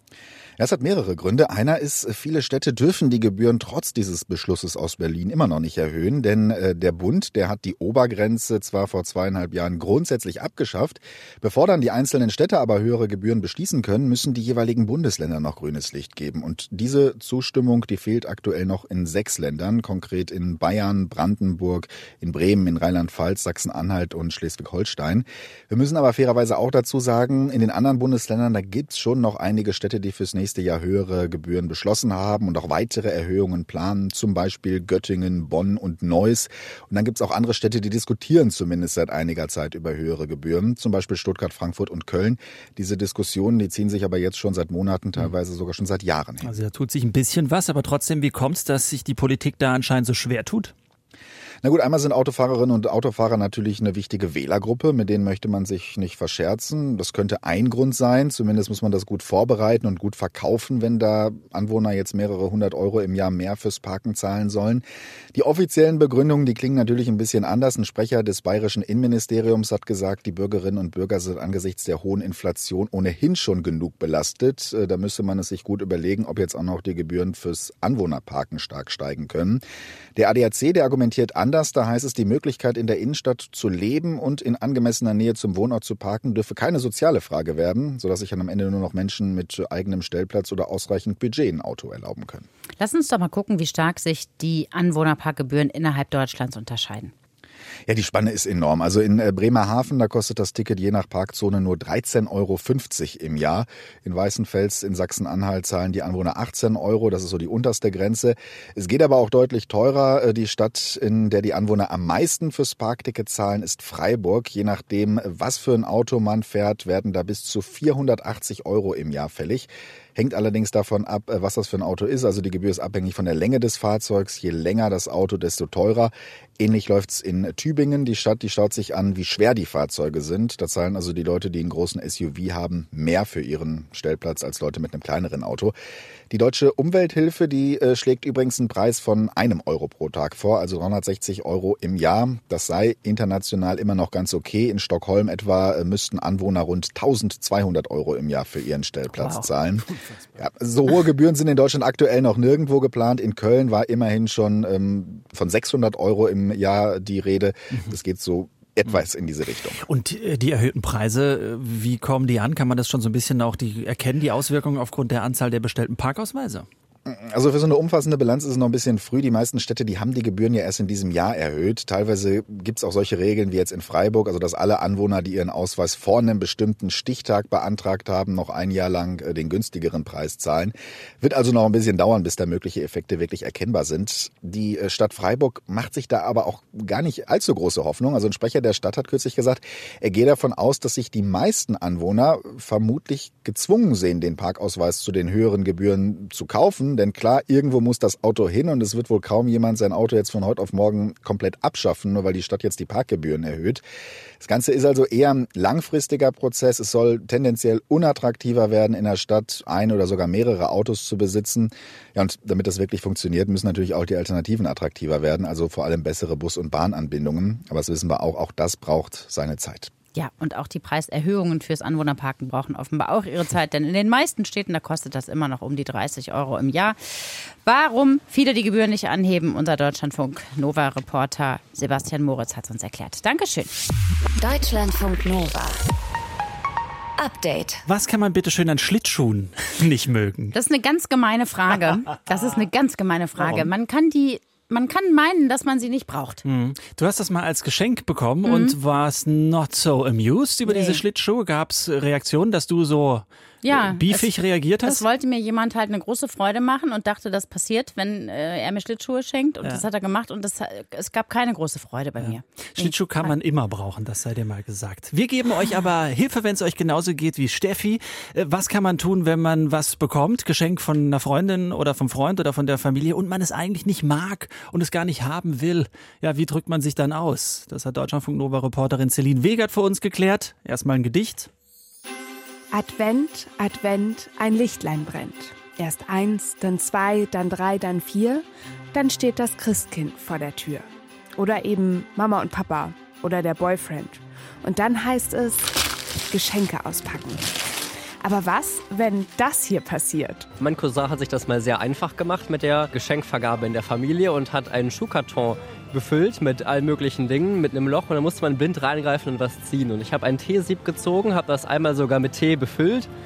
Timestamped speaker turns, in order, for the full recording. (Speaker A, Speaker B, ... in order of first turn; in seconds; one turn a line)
Speaker A: 0.6-46.5
Speaker B: 46.4-50.7
Speaker A: 51.6-79.6
Speaker A: 80.2-92.5
Speaker C: 92.8-97.1
Speaker A: 97.9-135.8
Speaker A: 136.3-159.8
Speaker B: 149.1-149.6
Speaker B: 159.8-166.7
Speaker A: 167.1-203.8
Speaker A: 204.4-219.9
Speaker C: 220.1-233.7
Speaker D: 234.4-235.8
Speaker D: 237.2-237.8
Speaker B: 237.8-240.5
Speaker C: 240.5-246.4
Speaker B: 243.4-243.7
Speaker B: 246.4-255.0
Speaker C: 248.4-248.8
Speaker C: 250.7-251.0
Speaker C: 253.6-254.3
Speaker C: 254.8-263.3
Speaker B: 262.2-281.5
Speaker E: 282.7-295.7
Speaker E: 296.3-297.5
Speaker E: 298.2-300.5
Speaker F: 300.6-313.1